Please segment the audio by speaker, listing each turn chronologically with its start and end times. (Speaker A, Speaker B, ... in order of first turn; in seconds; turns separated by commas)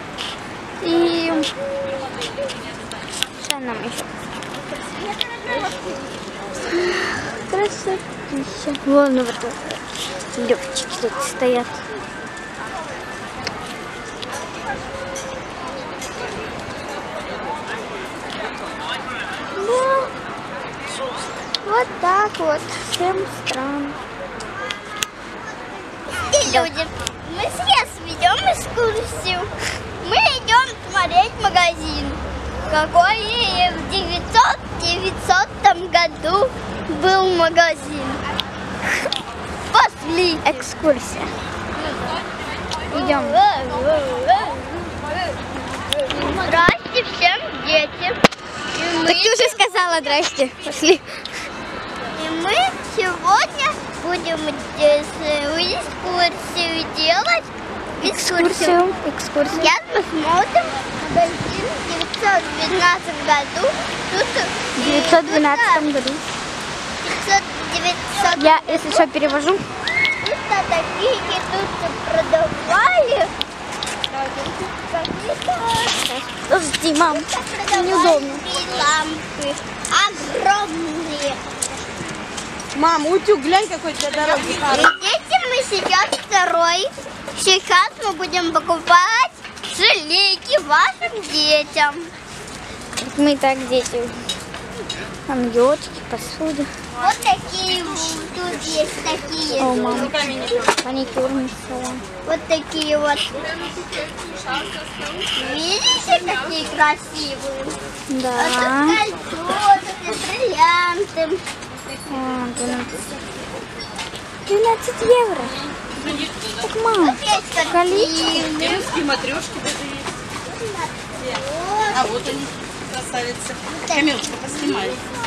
Speaker A: 0.8-1.5, Speaker A: 3.4-4.1, Speaker B: 5.2-5.8, Speaker A: 6.9-9.8, Speaker A: 10.3-11.8, Speaker A: 19.6-20.1, Speaker A: 21.6-24.0, Speaker B: 26.1-38.2, Speaker A: 26.4-26.7, Speaker B: 39.7-40.6, Speaker A: 40.4-41.3, Speaker A: 42.9-43.4, Speaker B: 42.9-44.6, Speaker B: 46.1-48.2, Speaker B: 48.7-50.1, Speaker A: 48.9-51.2, Speaker B: 52.1-58.8, Speaker A: 58.0-59.7, Speaker B: 59.5-65.9, Speaker A: 64.8-66.2, Speaker B: 67.0-69.4, Speaker A: 68.3-69.6, Speaker B: 70.2-73.3, Speaker B: 74.1-76.1, Speaker A: 76.0-78.5, Speaker B: 77.1-81.5, Speaker C: 82.7-84.8, Speaker B: 84.6-92.1, Speaker A: 93.0-94.1, Speaker A: 95.3-96.7, Speaker B: 97.0-100.3, Speaker A: 99.6-100.1, Speaker C: 100.0-100.5, Speaker A: 100.8-102.0, Speaker B: 102.2-103.4, Speaker B: 105.3-107.8, Speaker A: 108.1-109.0, Speaker B: 108.3-111.4, Speaker A: 112.1-113.1, Speaker A: 114.5-118.6, Speaker B: 117.0-118.9, Speaker D: 118.5-120.1, Speaker B: 120.5-122.1, Speaker D: 121.9-125.0, Speaker B: 123.7-125.0